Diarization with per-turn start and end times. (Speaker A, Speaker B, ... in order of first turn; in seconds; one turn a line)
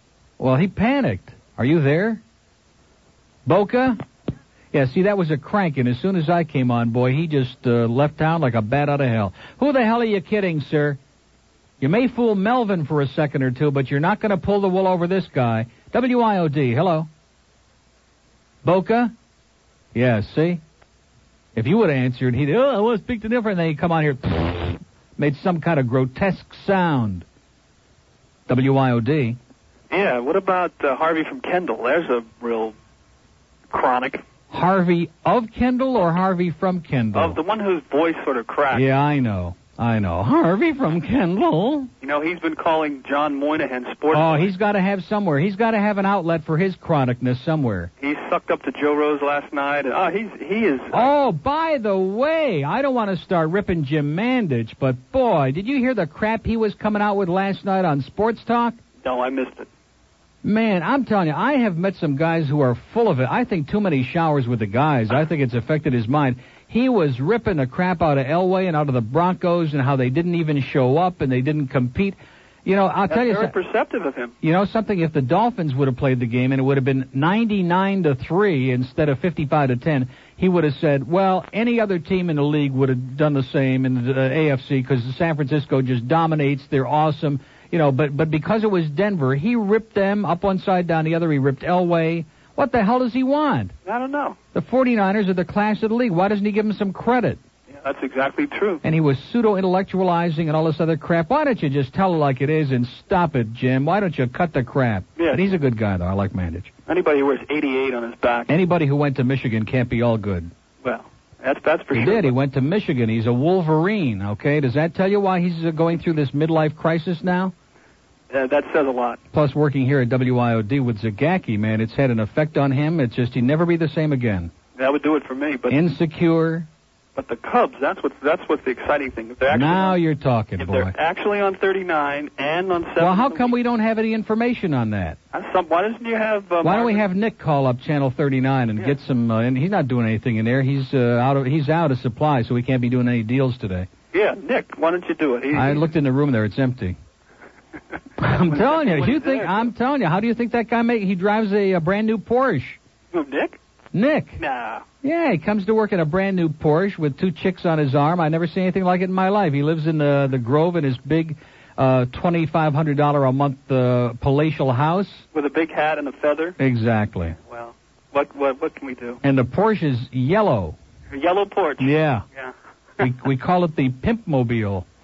Speaker A: 0.4-2.2
Speaker A: 3.5-4.0
Speaker A: 4.7-11.0
Speaker A: 11.8-17.1
Speaker A: 18.6-19.1
Speaker A: 19.9-20.6
Speaker A: 21.6-27.3
Speaker A: 28.5-29.4
Speaker B: 29.9-32.8
Speaker B: 33.7-34.2
Speaker A: 34.5-37.4
Speaker B: 37.1-38.9
Speaker A: 38.7-41.9
Speaker B: 42.0-44.5
Speaker A: 44.1-47.9
Speaker B: 48.0-51.1
Speaker A: 50.9-58.8
Speaker B: 59.0-59.7
Speaker A: 60.4-73.5
Speaker B: 73.1-74.3
Speaker A: 74.4-93.7
Speaker B: 93.8-94.4
Speaker A: 94.5-97.4
Speaker B: 97.7-98.8
Speaker A: 98.8-106.7
Speaker B: 105.2-105.5
Speaker B: 106.9-108.5
Speaker A: 108.5-110.5
Speaker B: 110.8-112.3
Speaker A: 111.9-117.5
Speaker B: 118.3-119.2
Speaker A: 119.3-124.5
Speaker B: 124.8-125.8
Speaker A: 125.7-126.7
Speaker B: 127.2-130.0
Speaker A: 129.5-130.9
Speaker B: 130.6-133.6
Speaker A: 133.0-135.2
Speaker B: 135.3-137.1
Speaker A: 136.6-143.9
Speaker B: 144.1-145.9
Speaker A: 145.5-147.0
Speaker A: 148.2-152.8
Speaker B: 148.3-149.7
Speaker B: 153.1-153.6
Speaker A: 153.9-154.4
Speaker B: 154.4-154.8
Speaker A: 155.0-165.3
Speaker B: 165.3-166.6
Speaker A: 166.6-167.4
Speaker B: 167.4-169.2
Speaker A: 169.2-170.8
Speaker B: 171.1-172.5
Speaker A: 171.8-172.2
Speaker A: 173.0-174.9